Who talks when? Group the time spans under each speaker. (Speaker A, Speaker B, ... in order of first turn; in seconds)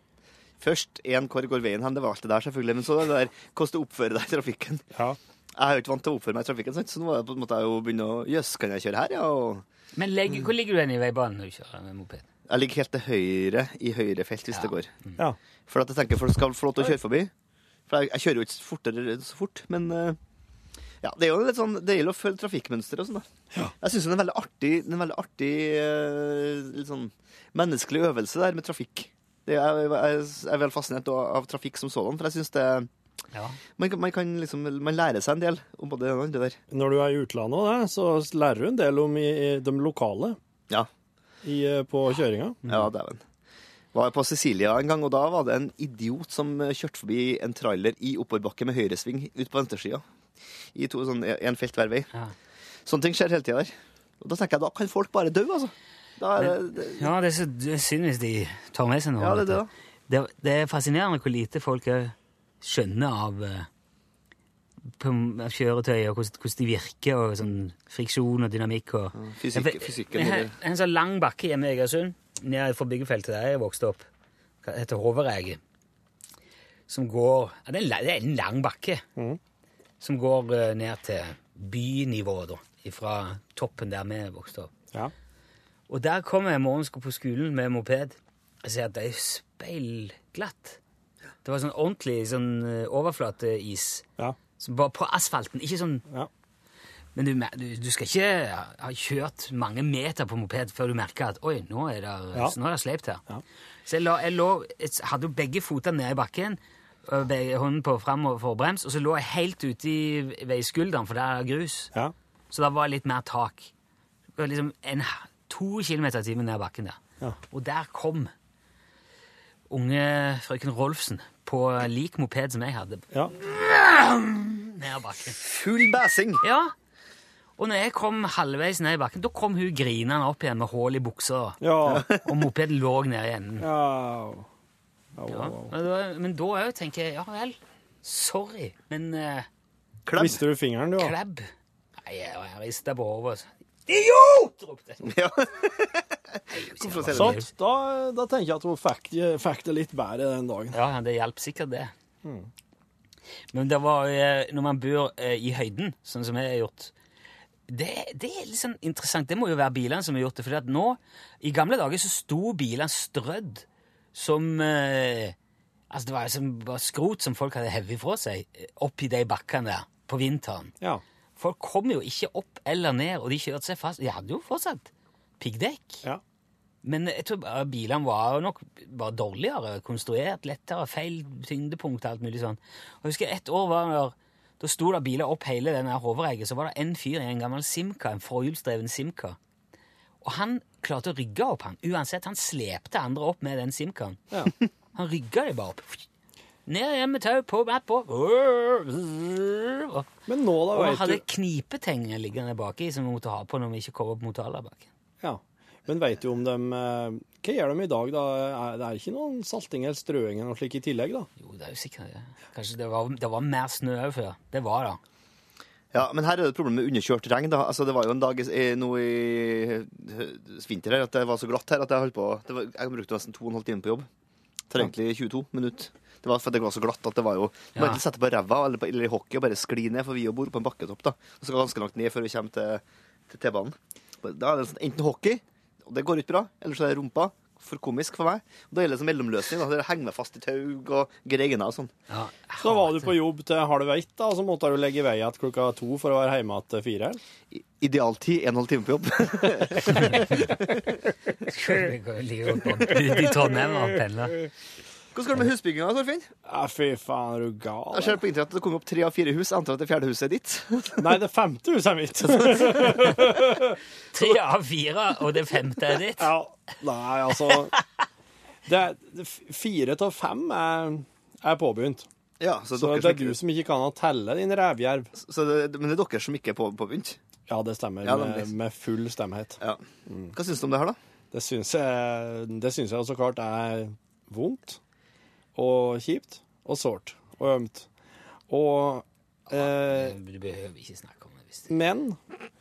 Speaker A: 0.6-4.8, 5.5-9.6, 12.5-14.9, 15.7-17.3, 17.9-20.2, 21.0-23.3, 23.8-32.9, 33.8-36.6, 42.6-43.2, 43.9-50.0, 50.7-52.1, 52.9-57.1, 59.2-59.7, 69.1-70.5, 125.4-126.4, 131.9-132.2, 140.1-140.4, 145.0-146.0, 146.7-147.4, 215.9-224.1, 224.7-241.9, 247.5-250.8, 255.1-256.3, 257.9-261.1, 262.4-263.0, 272.4-273.4, 275.1-277.2, 278.0-278.5, 279.6-281.0
Speaker B: 9.9-12.2, 14.5-15.1, 33.3-33.6, 56.4-63.7, 65.0-74.1, 74.6-75.6, 76.9-79.0, 80.0-84.7, 85.9-90.8, 91.4-94.0, 94.6-96.0, 97.1-103.2, 103.8-111.9, 112.5-113.7, 114.4-117.0, 117.5-118.3, 119.7-125.4, 126.4-126.7, 127.6-133.7, 135.3-139.5, 141.0-145.1, 146.5-147.5, 150.7-151.9, 153.5-156.9, 157.7-165.3, 165.9-170.7, 171.4-176.0, 176.8-189.4, 190.2-194.2, 194.9-196.0, 196.7-200.1, 200.7-204.9, 211.4-215.0, 227.8-228.0, 242.1-243.2, 249.9-250.5, 251.5-254.4, 264.1-266.3, 289.5-291.7
Speaker C: 36.7-40.4, 41.4-42.6, 131.6-132.0, 133.6-134.4, 135.2-135.7, 140.2-141.1, 147.1-150.8, 152.2-152.5, 200.3-201.2, 205.2-211.3, 242.6-247.2, 256.4-258.2, 261.0-263.8, 266.2-267.7, 268.6-272.1, 272.7-275.1, 277.5-280.3, 281.3-284.8, 285.5-287.9, 288.5-290.1, 291.7-292.2